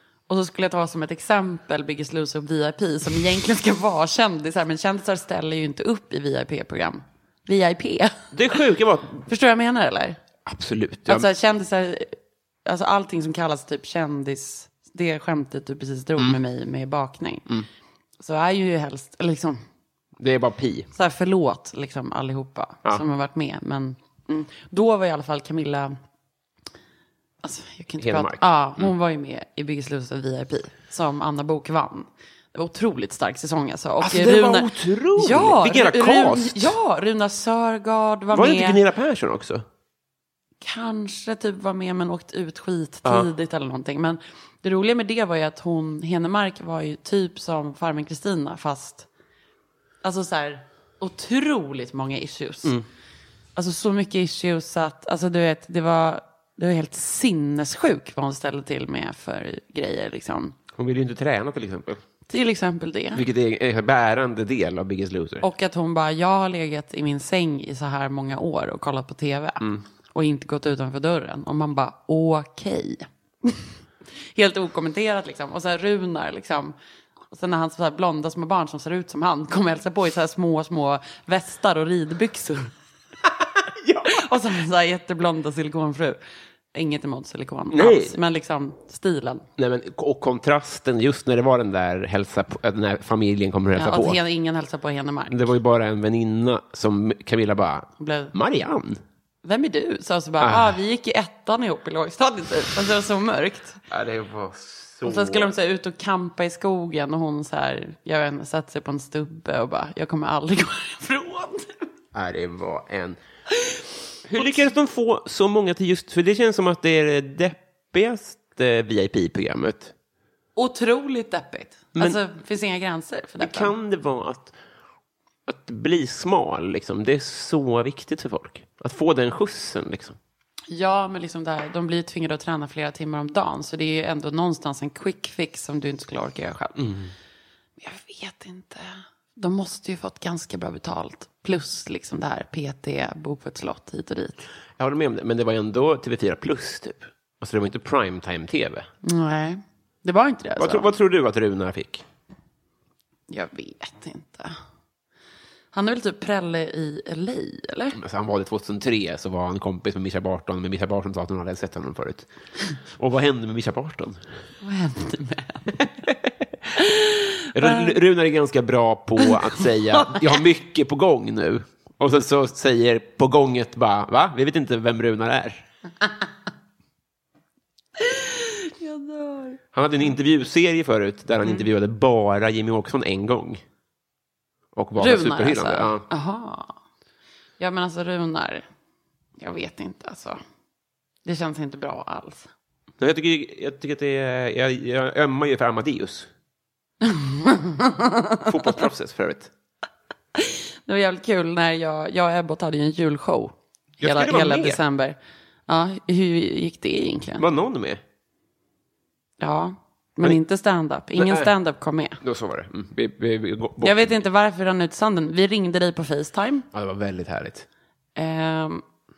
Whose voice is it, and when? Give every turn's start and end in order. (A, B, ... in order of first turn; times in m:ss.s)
0:00.3-0:08.3 A
0:08.3-0:09.3 B
0:09.3-0:10.2 A
0:10.4-0:11.3 B
0:11.1-0:12.1 A
0:12.7-0:17.5 A
0:18.2-0:19.6 A
0:20.2-0:20.9 B
0:20.9-0:26.0 A
0:27.4-0:38.8 A
0:28.0-0:28.9 B
0:34.0-0:36.8 B
0:38.3-0:39.6 B
0:40.6-0:49.1 A
0:50.0-0:52.8 A
0:53.6-1:00.6 A
1:00.7-1:02.0 B
1:02.3-1:03.2 A
1:03.1-1:05.4 B
1:05.4-1:13.7 A
1:14.4-1:16.7 A
1:17.3-1:22.7 A
1:23.8-1:24.2 B
1:24.0-1:26.2 A
1:26.7-1:29.5 A
1:27.7-1:28.2 B
1:29.6-1:34.2 B
1:33.8-1:35.4 A
1:35.3-1:39.0 B
1:38.0-1:38.3 A
1:39.4-1:43.8 A
1:40.4-1:40.7 B
1:43.9-1:45.5 B
1:45.0-1:51.9 A
1:52.1-1:53.2 B
1:54.3-1:59.9 B
2:00.6-2:03.7 A
2:03.4-2:04.5 B
2:05.4-2:10.2 B
2:10.7-2:16.9 A
2:16.8-2:17.1 B
2:17.8-2:24.4 A
2:24.8-2:28.9 B
2:29.0-2:30.9 A
2:30.6-2:32.0 B
2:33.3-2:34.6 A
2:35.7-2:38.0 A
2:37.9-2:42.3 B
2:42.9-2:44.3 B
2:44.6-2:45.8 A
2:46.0-2:46.7 B
2:46.8-2:48.0 A
2:47.6-2:55.7 B
2:58.0-2:59.6 A
2:59.7-3:03.6 B
3:04.7-3:06.0 B
3:05.0-3:06.8 A
3:07.6-3:08.6 A
3:09.4-3:10.4 A
3:11.2-3:12.5 A
3:13.0-3:16.3 B
3:17.0-3:18.5 A
3:18.4-3:19.5 B
3:20.4-3:27.4 A
3:24.0-3:24.8 B
3:27.4-3:28.0 B
3:29.4-3:32.2 A
3:31.2-3:31.5 B
3:32.2-3:34.1 B
3:33.8-3:36.7 A
3:36.7-3:37.7 B
3:38.2-3:38.8 A